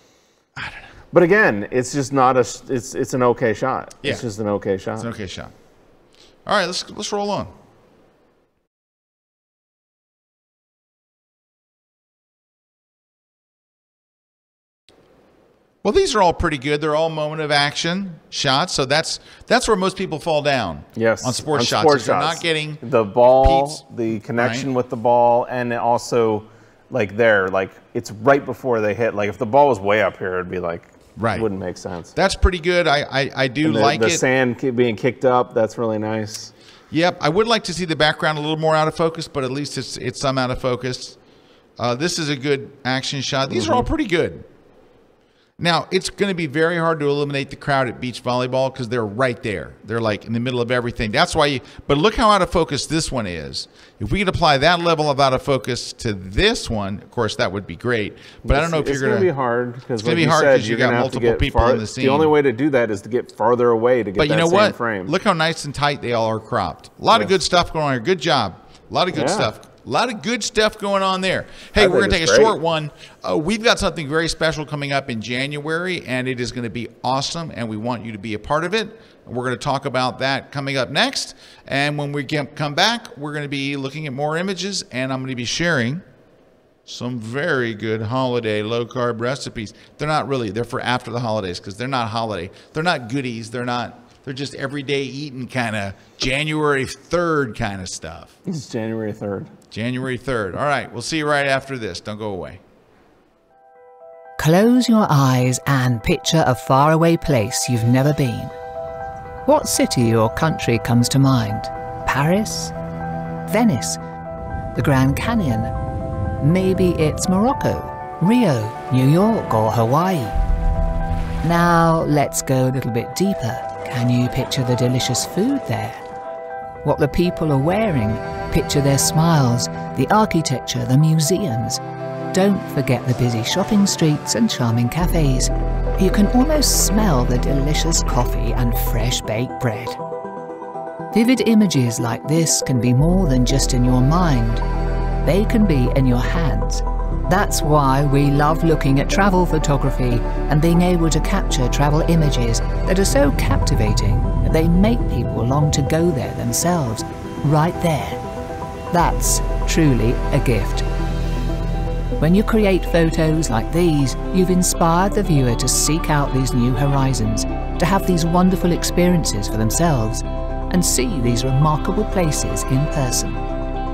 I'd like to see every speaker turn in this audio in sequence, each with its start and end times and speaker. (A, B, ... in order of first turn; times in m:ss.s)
0:00.6-0:00.9 A
0:01.1-0:05.1 B
0:05.0-0:05.5 A
0:06.4-0:07.5 A
0:15.8-0:22.8 A
0:21.0-0:32.1 B
0:23.4-0:23.8 A
0:24.4-0:24.7 A
0:31.2-0:31.5 A
0:32.1-0:34.2 A
0:33.6-0:36.5 B
0:36.9-0:41.2 A
0:41.8-0:44.4 A
0:43.5-0:43.9 B
0:45.6-0:59.3 A
0:58.4-1:05.1 B
1:00.0-1:02.3 A
1:04.2-1:26.0 A
1:09.1-1:09.5 B
1:11.8-1:12.5 B
1:26.9-1:38.3 A
1:38.4-1:39.5 B
1:39.7-1:42.6 A
1:44.4-1:48.6 C
1:49.4-1:52.7 C
1:53.5-1:54.0 C
1:54.8-1:55.7 C
1:56.4-2:00.4 C
2:01.4-2:06.0 C
2:06.8-2:11.8 C
2:12.3-2:20.0 C
2:21.1-2:24.6 C
2:25.2-2:38.2 C
2:38.9-2:40.9 C
2:42.2-2:53.4 C